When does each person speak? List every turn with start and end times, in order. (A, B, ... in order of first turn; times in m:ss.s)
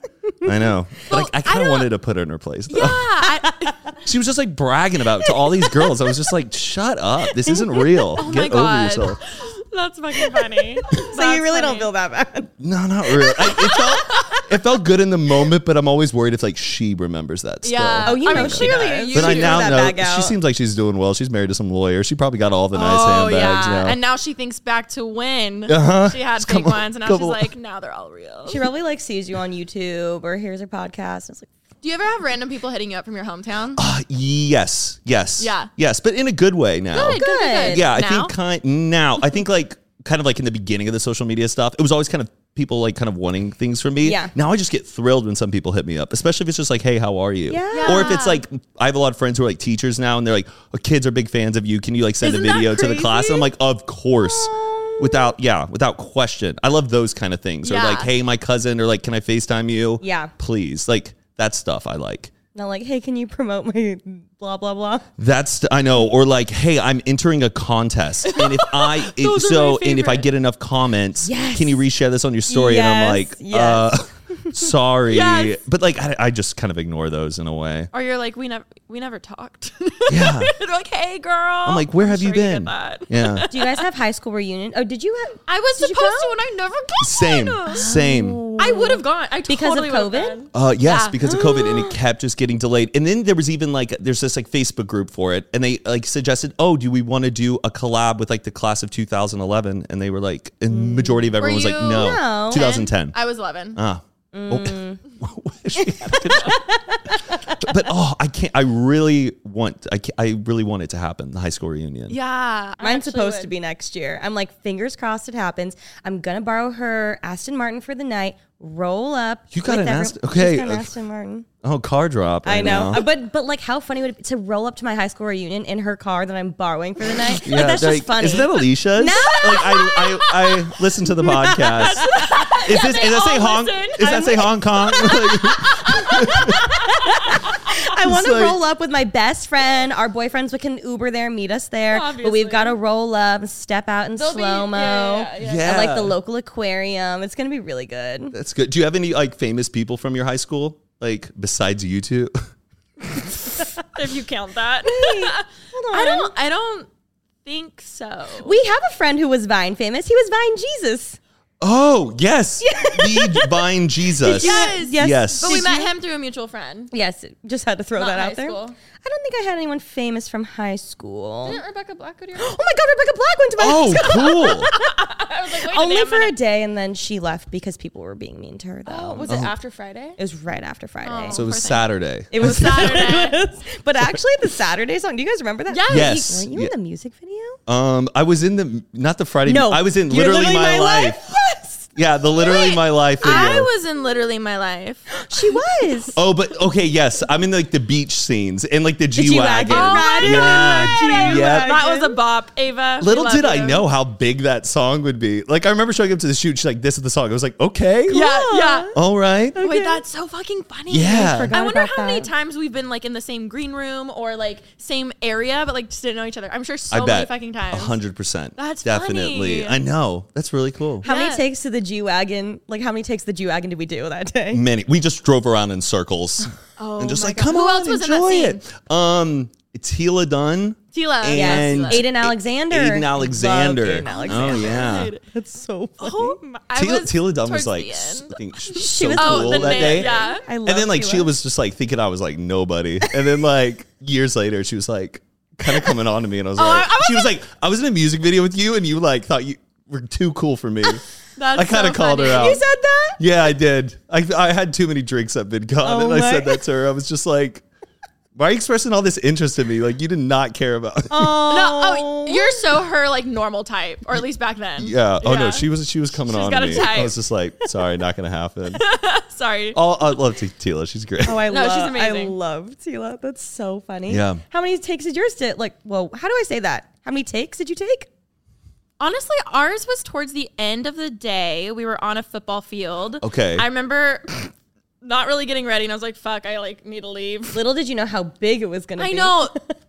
0:00.4-0:03.0 A
0:01.1-0:01.9 B
0:02.7-0:03.8 B
0:04.0-0:09.2 A
0:07.5-0:08.2 C
0:08.2-0:11.9 B
0:10.2-0:12.5 C
0:12.6-0:24.0 A
0:13.2-0:13.7 C
0:13.5-0:14.4 B
0:17.6-0:19.8 B
0:18.0-0:20.3 C
0:22.7-0:28.6 B
0:25.7-0:27.5 A
0:28.5-0:31.5 C
0:31.8-0:33.8 B
0:33.8-1:02.3 A
0:35.4-0:35.7 B
0:36.9-0:38.3 B
0:37.1-0:37.8 C
0:44.0-0:44.3 C
0:47.5-0:48.2 C
0:47.7-0:48.4 B
0:52.2-0:53.5 B
0:54.2-0:55.3 C
0:57.6-0:58.1 B
1:00.0-1:00.3 C
1:02.5-1:05.0 C
1:05.2-1:17.9 A
1:08.3-1:10.3 B
1:11.2-1:11.8 C
1:12.5-1:14.6 C
1:15.1-1:15.6 B
1:17.9-1:23.8 B
1:20.1-1:20.5 A
1:21.6-1:23.5 A
1:23.5-1:26.3 C
1:25.5-1:27.9 B
1:27.0-1:28.4 A
1:27.7-1:30.4 C
1:28.6-1:31.2 B
1:30.5-1:43.2 A
1:31.3-1:31.9 C
1:40.7-1:41.3 C
1:41.4-1:43.8 B
1:41.9-1:42.6 C
1:43.7-1:46.6 A
1:44.3-1:45.0 C
1:45.8-1:47.6 C
1:47.5-1:52.2 A
1:52.1-1:53.5 B
1:52.8-2:01.5 C
1:59.5-2:00.9 A
2:01.6-2:03.0 A
2:02.4-2:10.0 C
2:07.3-2:16.6 A
2:09.4-2:10.6 B
2:11.2-2:12.3 C
2:11.4-2:14.4 B
2:14.0-2:28.3 C
2:15.1-2:16.4 B
2:18.0-2:18.6 A
2:21.9-2:22.8 B
2:24.2-2:25.9 B
2:25.4-2:26.2 A
2:28.3-2:32.3 A
2:33.8-2:36.9 B
2:34.8-2:36.3 C
2:37.4-2:38.5 B
2:38.4-2:41.2 C
2:41.6-2:45.5 A
2:42.6-2:43.6 C
2:44.2-2:45.9 C
2:44.2-2:46.9 B
2:46.9-2:51.6 C
2:48.0-2:48.8 B
2:51.4-2:52.6 B
2:52.4-2:55.1 C
2:53.6-2:54.7 A
2:54.1-2:56.4 B
2:55.6-2:59.3 C
2:58.9-3:00.2 B
2:59.3-2:59.5 A
3:00.2-3:01.4 C
3:01.0-3:03.4 B
3:01.3-3:03.2 A
3:02.3-3:07.6 C
3:05.7-3:06.2 B
3:05.9-3:06.7 A
3:07.7-3:11.2 A
3:09.4-3:11.8 C
3:11.9-3:13.7 A
3:12.4-3:15.6 B
3:13.2-3:13.6 C
3:15.1-3:16.2 C
3:16.2-3:21.7 A
3:19.2-3:22.2 C
3:19.7-3:23.8 B
3:23.0-3:28.3 A
3:28.1-3:28.9 B
3:28.1-3:28.9 C
3:28.9-3:29.6 A
3:29.5-3:30.0 C
3:29.6-3:38.0 B
3:30.9-3:31.5 A
3:31.1-3:32.3 C
3:36.9-3:41.0 A
3:38.6-3:39.8 B
3:41.0-3:44.6 C
3:41.0-3:41.4 B
3:44.5-3:55.1 A
3:46.8-3:48.6 B
3:50.9-3:52.1 B
3:51.3-3:56.4 C
3:54.0-3:55.2 B
3:56.0-4:00.4 B
3:56.7-4:11.0 A
3:58.7-4:01.3 C
4:06.6-4:07.4 B
4:11.4-4:12.6 B
4:11.5-4:12.6 A
4:12.3-4:13.2 C
4:13.2-4:17.6 A
4:15.8-4:16.6 C
4:18.3-4:21.4 A
4:21.1-4:22.6 C
4:21.5-4:25.7 B
4:24.8-4:28.8 A
4:26.2-4:27.1 B
4:28.8-4:29.8 B
4:29.7-4:31.5 A
4:31.2-4:38.1 C
4:31.5-4:32.4 B
4:34.1-4:34.4 A
4:39.0-4:47.6 B
4:43.2-4:43.7 A
4:47.5-4:49.7 C
4:49.0-4:49.5 B